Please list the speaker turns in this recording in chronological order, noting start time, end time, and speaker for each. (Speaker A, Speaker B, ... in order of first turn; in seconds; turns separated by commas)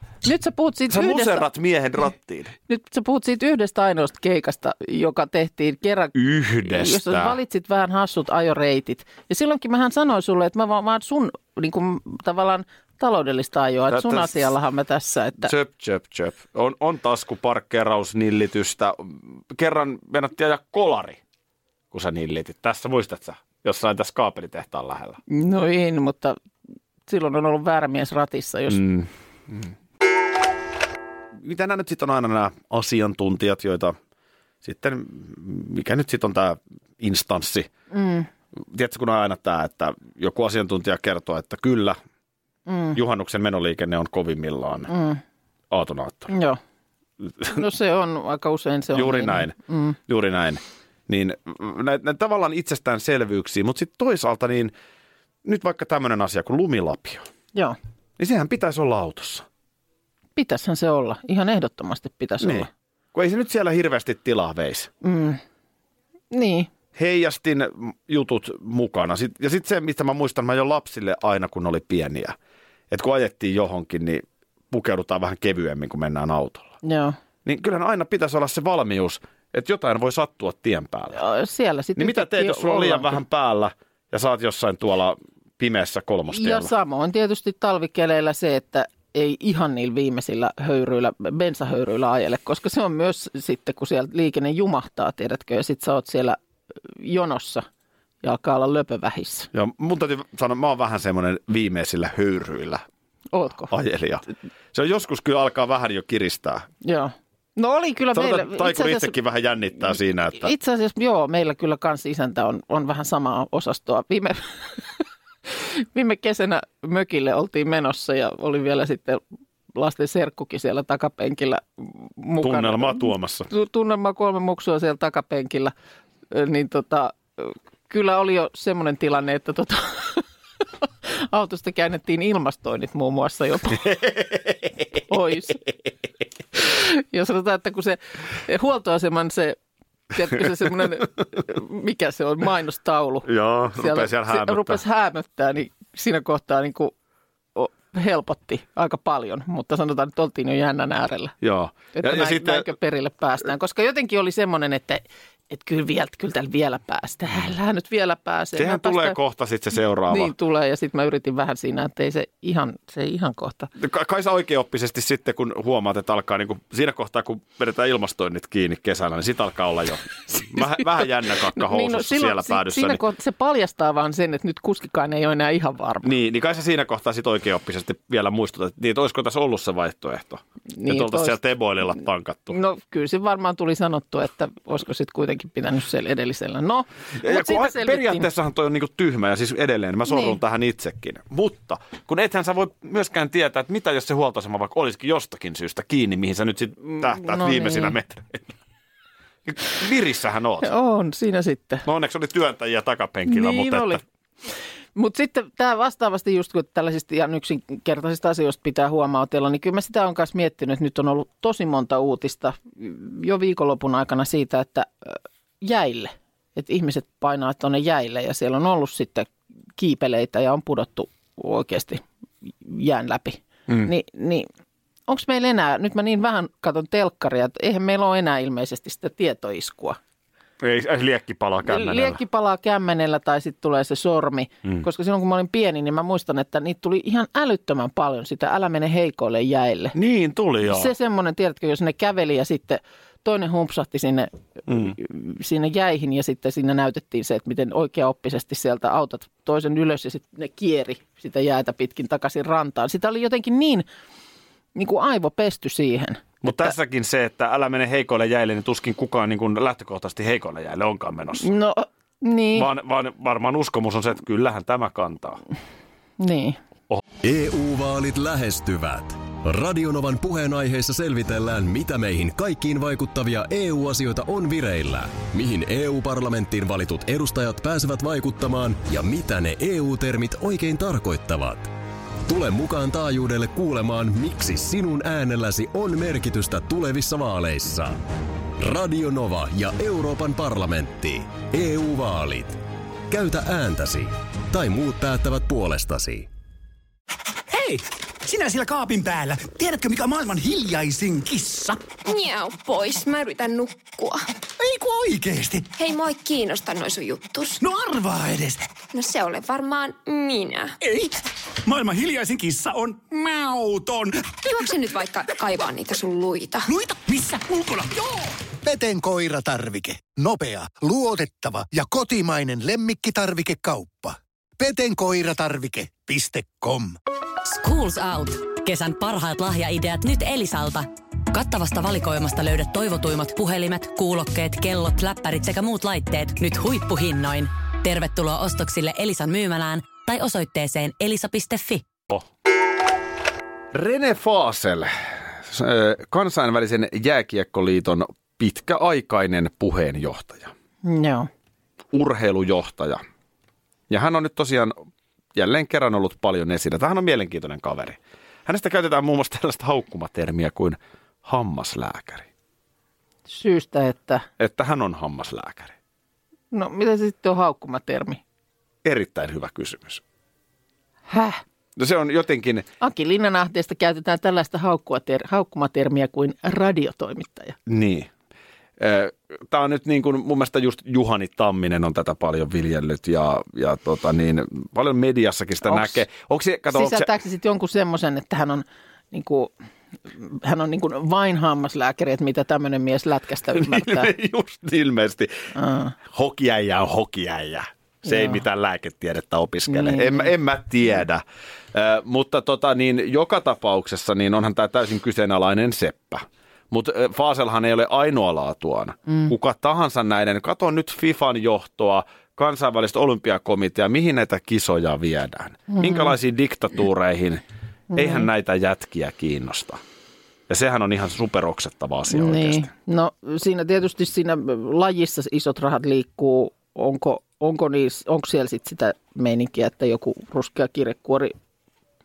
Speaker A: 0.2-1.4, Speaker B: 0.9-2.5, Speaker A: 2.7-15.5, Speaker B: 6.1-7.4, Speaker B: 13.9-14.5, Speaker B: 15.4-21.2, Speaker B: 21.9-25.2, Speaker A: 25.3-26.4, Speaker A: 27.1-28.8, Speaker B: 28.7-29.7, Speaker B: 31.4-34.0, Speaker B: 34.6-37.7, Speaker A: 37.9-38.3, Speaker B: 38.6-42.0, Speaker A: 42.7-43.0, Speaker B: 42.9-44.9, Speaker A: 44.9-45.2, Speaker B: 45.7-46.3, Speaker A: 46.3-46.6, Speaker B: 47.3-47.6, Speaker A: 47.5-50.0, Speaker B: 48.9-49.5, Speaker B: 50.1-54.7, Speaker B: 55.4-57.2, Speaker B: 58.2-59.4, Speaker A: 60.4-62.7, Speaker B: 62.4-64.9, Speaker A: 65.0-65.4, Speaker A: 66.3-66.7, Speaker B: 66.9-72.3, Speaker B: 72.9-76.7, Speaker A: 76.8-77.2, Speaker B: 77.4-81.2, Speaker A: 81.1-83.2, Speaker B: 82.0-86.7, Speaker A: 86.3-97.7, Speaker A: 98.2-99.5, Speaker B: 99.5-102.8, Speaker A: 103.3-103.7, Speaker B: 103.7-106.7, Speaker A: 106.8-109.1, Speaker B: 108.1-110.5, Speaker A: 110.4-114.9, Speaker A: 115.6-119.2, Speaker A: 119.7-125.7, Speaker B: 122.4-123.5, Speaker A: 126.3-130.2, Speaker A: 131.1-134.0, Speaker B: 133.8-134.8, Speaker A: 135.1-135.6, Speaker A: 136.6-139.6, Speaker A: 140.1-146.9, Speaker B: 143.2-144.8, Speaker A: 147.5-151.3, Speaker B: 151.4-152.7, Speaker A: 151.9-159.2, Speaker B: 158.6-160.3, Speaker A: 160.1-163.7, Speaker B: 163.8-173.0, Speaker A: 170.5-176.2, Speaker B: 176.0-182.6, Speaker A: 180.7-181.4, Speaker A: 182.5-188.3, Speaker B: 187.2-198.5, Speaker A: 190.1-190.4, Speaker A: 196.9-197.9, Speaker B: 199.4-200.7, Speaker A: 200.6-201.8, Speaker B: 201.8-204.0, Speaker A: 203.3-204.0, Speaker A: 204.9-224.5, Speaker A: 225.1-230.0, Speaker B: 230.6-232.2, Speaker A: 231.6-239.9, Speaker B: 239.9-240.9, Speaker A: 240.6-253.8, Speaker B: 244.7-244.9, Speaker A: 254.8-256.7, Speaker B: 256.4-261.5, Speaker A: 261.4-262.7, Speaker B: 262.5-265.4, Speaker A: 266.2-266.6, Speaker C: 267.2-281.7, Speaker C: 282.3-288.0, Speaker C: 288.6-296.3, Speaker D: 297.5-301.9, Speaker E: 302.1-304.3, Speaker D: 304.6-305.7, Speaker E: 305.8-307.6, Speaker D: 307.6-308.7, Speaker E: 308.9-310.7, Speaker D: 310.8-314.6, Speaker E: 314.5-316.7, Speaker D: 316.6-318.3, Speaker F: 318.6-327.0, Speaker G: 327.4-341.8, Speaker B: 343.7-350.5, Speaker A: 350.8-351.3, Speaker B: 351.9-353.0, Speaker B: 353.9-354.8, Speaker B: 355.3-362.3, Speaker A: 363.3-364.2, Speaker B: 364.4-365.7, Speaker A: 366.5-368.2, Speaker B: 368.8-370.0, Speaker A: 371.1-371.4, Speaker B: 371.8-372.7, Speaker A: 372.8-377.6, Speaker B: 377.6-378.1, Speaker B: 378.8-387.1, Speaker A: 385.7-386.0, Speaker A: 386.7-389.5, Speaker A: 390.1-394.1, Speaker B: 393.5-395.5, Speaker A: 395.5-395.9, Speaker B: 396.1-417.4, Speaker A: 398.1-398.4, Speaker A: 399.7-400.3, Speaker A: 415.7-416.1, Speaker A: 417.9-418.2, Speaker B: 417.9-419.8, Speaker B: 420.5-422.7, Speaker A: 422.1-431.3